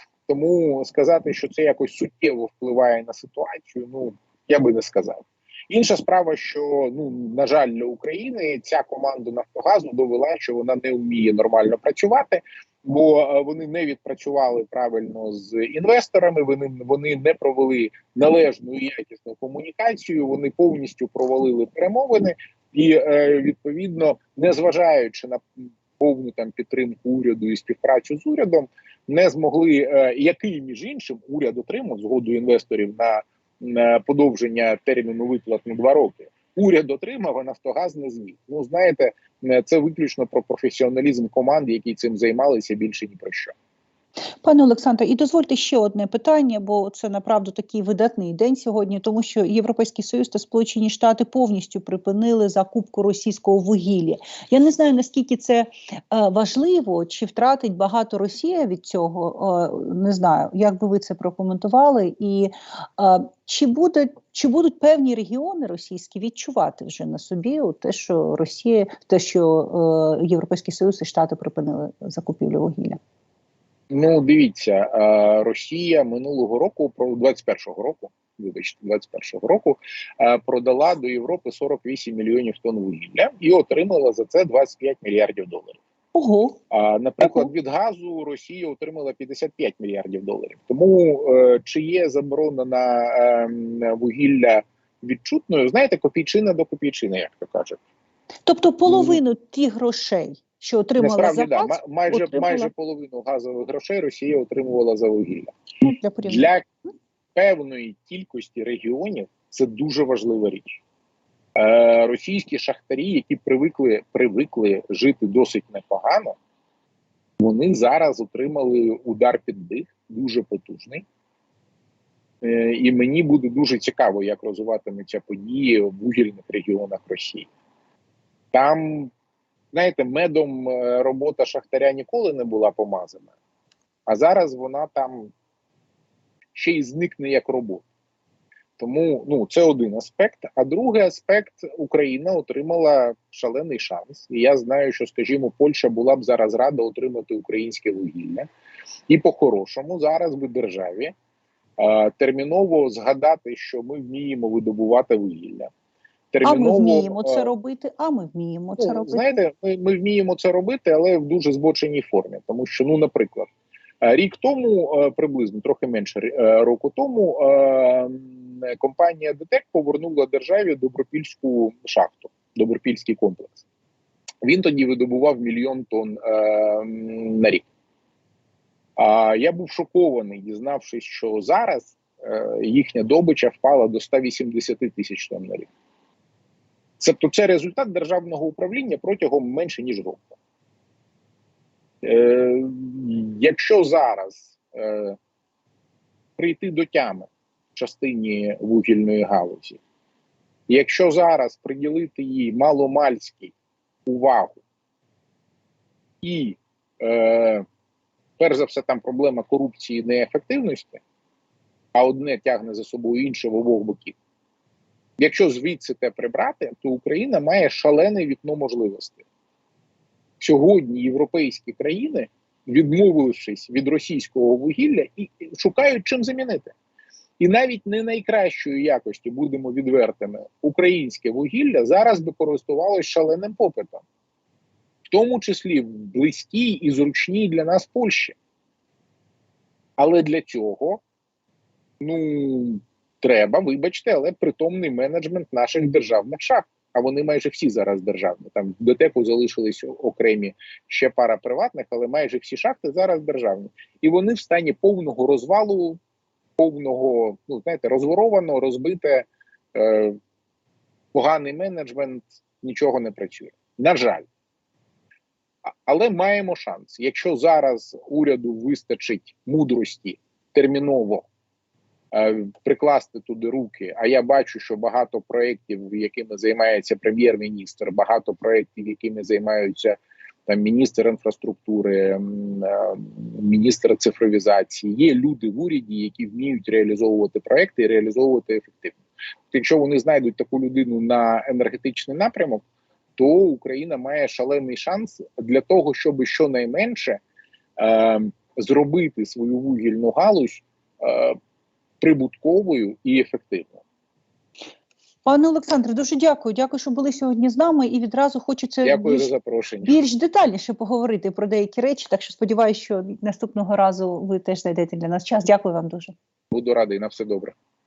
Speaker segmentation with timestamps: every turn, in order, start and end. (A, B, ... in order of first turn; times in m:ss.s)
0:00.3-0:25.4 A
0:26.0-0:43.5 A
0:44.4-1:13.0 B
1:13.9-1:25.8 A
1:26.2-1:26.6 B
1:26.7-1:37.8 A
1:27.2-1:27.5 B
1:38.5-1:42.7 B
1:38.9-1:39.2 A
1:41.0-1:45.6 A
1:45.8-1:46.5 B
1:46.2-1:46.7 A
1:47.4-1:50.8 A
1:51.6-1:56.4 A
1:57.4-2:01.1 A
2:02.4-2:07.5 A
2:08.5-2:09.1 A
2:09.7-2:13.3 A
2:14.1-2:15.3 A
2:16.6-2:17.8 A
2:18.8-2:28.5 A
2:29.1-2:31.1 A
2:31.8-2:35.7 A
2:36.3-2:37.5 A
2:36.4-2:39.4 B
2:38.8-2:53.6 A
2:54.4-2:57.7 A
2:59.0-3:05.7 A
3:07.0-3:10.4 A
3:12.0-3:15.2 A
3:16.4-3:19.8 A
3:20.7-3:23.5 A
3:24.1-3:24.6 A
3:26.2-3:27.7 A
3:28.4-3:31.0 A
3:32.0-3:34.2 A
3:35.2-3:39.2 A
3:40.4-3:46.7 A
3:47.4-3:54.0 A
3:55.1-3:58.4 A
4:00.0-4:01.0 A
4:02.0-4:16.0 A
4:16.6-4:20.2 A
4:21.1-4:24.3 A
4:25.9-4:31.3 A
4:32.1-4:49.0 A
4:49.5-4:52.6 A
4:53.2-4:57.2 A
4:57.8-5:01.4 A
5:02.0-5:03.8 A
5:05.3-5:09.3 B
5:08.8-5:10.0 A
5:09.8-5:16.1 B
5:16.5-5:17.6 A